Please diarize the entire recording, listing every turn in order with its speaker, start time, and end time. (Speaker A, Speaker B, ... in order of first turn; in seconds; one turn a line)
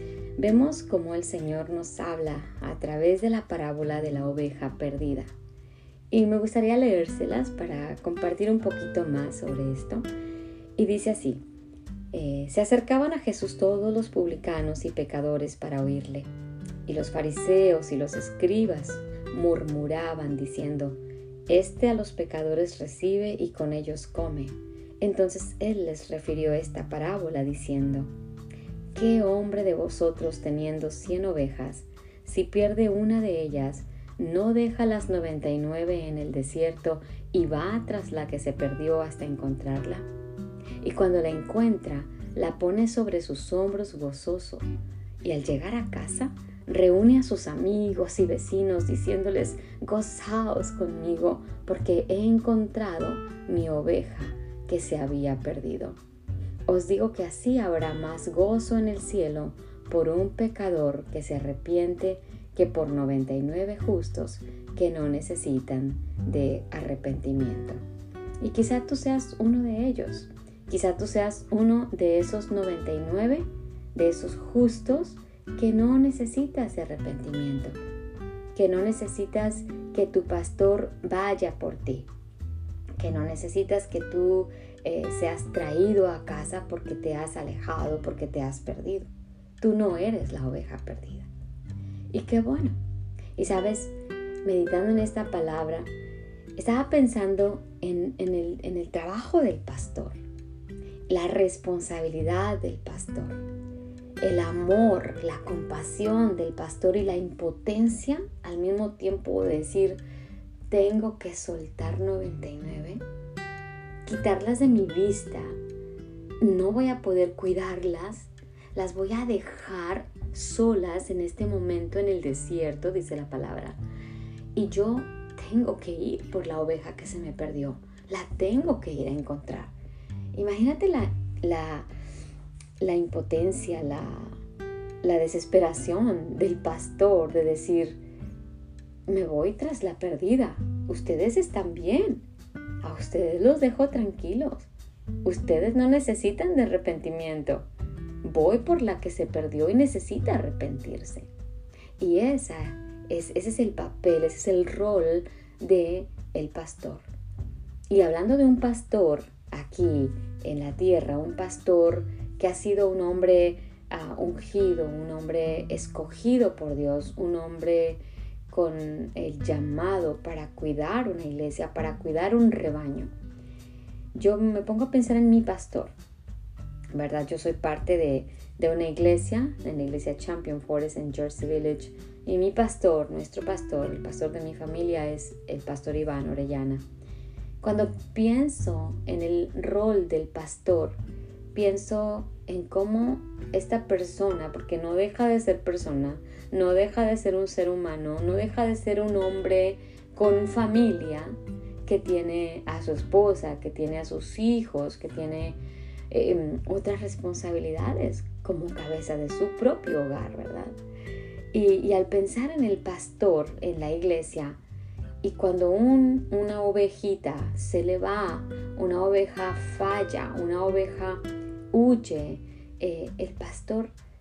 Speaker A: 0.4-5.3
Speaker A: 6.1-10.1
Speaker A: 10.8-11.4
Speaker A: 12.1-16.3
Speaker A: 16.9-28.1
Speaker A: 28.9-40.1
Speaker A: 40.8-44.7
Speaker A: 45.2-56.0
Speaker A: 56.7-67.8
Speaker A: 68.4-77.8
Speaker A: 78.5-82.1
Speaker A: 83.0-89.1
Speaker A: 89.6-91.3
Speaker A: 92.1-92.8
Speaker A: 93.4-93.9
Speaker A: 94.4-95.9
Speaker A: 96.6-100.2
Speaker A: 101.1-103.4
Speaker A: 104.2-110.0
Speaker A: 110.7-113.0
Speaker A: 114.1-115.6
Speaker A: 116.4-123.8
Speaker A: 124.5-129.7
Speaker A: 130.3-131.9
Speaker A: 132.8-134.4
Speaker A: 135.0-138.0
Speaker A: 139.1-142.2
Speaker A: 142.8-144.7
Speaker A: 145.2-147.7
Speaker A: 148.2-151.3
Speaker A: 152.0-157.1
Speaker A: 157.9-173.1
Speaker A: 174.1-175.9
Speaker A: 176.9-186.8
Speaker A: 187.6-191.0
Speaker A: 191.5-205.6
Speaker A: 206.1-210.7
Speaker A: 211.5-214.6
Speaker A: 215.2-223.9